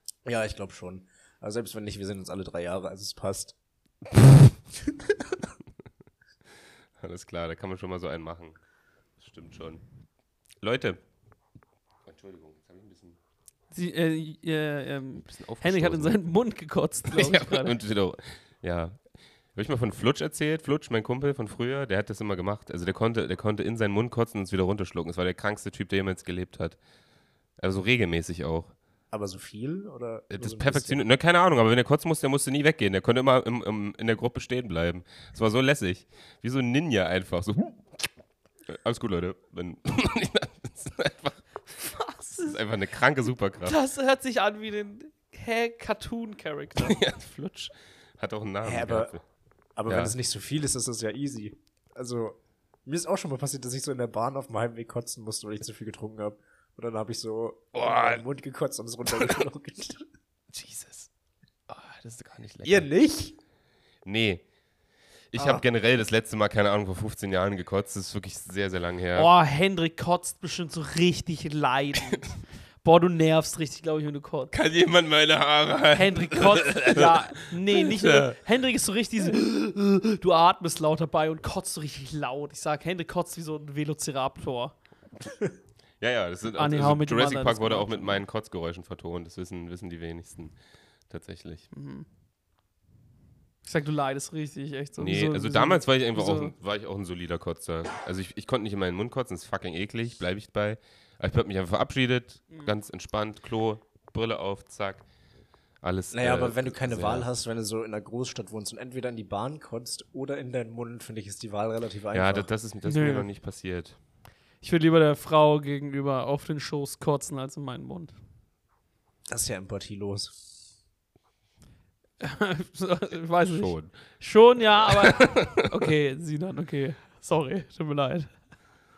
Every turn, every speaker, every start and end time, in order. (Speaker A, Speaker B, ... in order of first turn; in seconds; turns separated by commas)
Speaker A: 0.2-3.5, Speaker A: 4.8-5.4, Speaker B: 7.0-8.6, Speaker B: 9.2-9.8, Speaker B: 10.6-11.0, Speaker B: 12.1-13.2, Speaker C: 13.7-17.8, Speaker B: 15.2-16.2, Speaker B: 17.1-19.0, Speaker B: 19.6-26.8, Speaker B: 27.6-28.7, Speaker A: 29.1-31.0, Speaker B: 30.3-38.1, Speaker B: 38.7-41.5, Speaker C: 41.8-42.6, Speaker B: 42.4-43.8, Speaker C: 43.6-47.0, Speaker B: 46.8-49.2, Speaker A: 48.6-49.1, Speaker A: 49.8-60.0, Speaker B: 49.9-50.1, Speaker B: 57.7-58.2, Speaker B: 59.2-59.4, Speaker B: 60.5-61.1, Speaker B: 61.7-62.9, Speaker A: 62.6-63.4, Speaker B: 64.0-64.4, Speaker B: 65.3-69.3, Speaker A: 65.4-65.6, Speaker C: 69.2-74.5, Speaker B: 74.5-78.3, Speaker C: 75.9-84.7, Speaker B: 86.0-90.5, Speaker C: 86.6-88.2, Speaker B: 91.1-91.7, Speaker C: 91.7-92.1, Speaker C: 93.7-96.5, Speaker B: 95.0-105.0, Speaker B: 105.8-107.3, Speaker A: 106.1-112.5, Speaker B: 112.1-114.0, Speaker C: 112.8-113.3, Speaker C: 114.6-118.1, Speaker A: 119.3-120.4, Speaker C: 122.2-128.3, Speaker B: 123.5-124.0, Speaker B: 124.9-125.9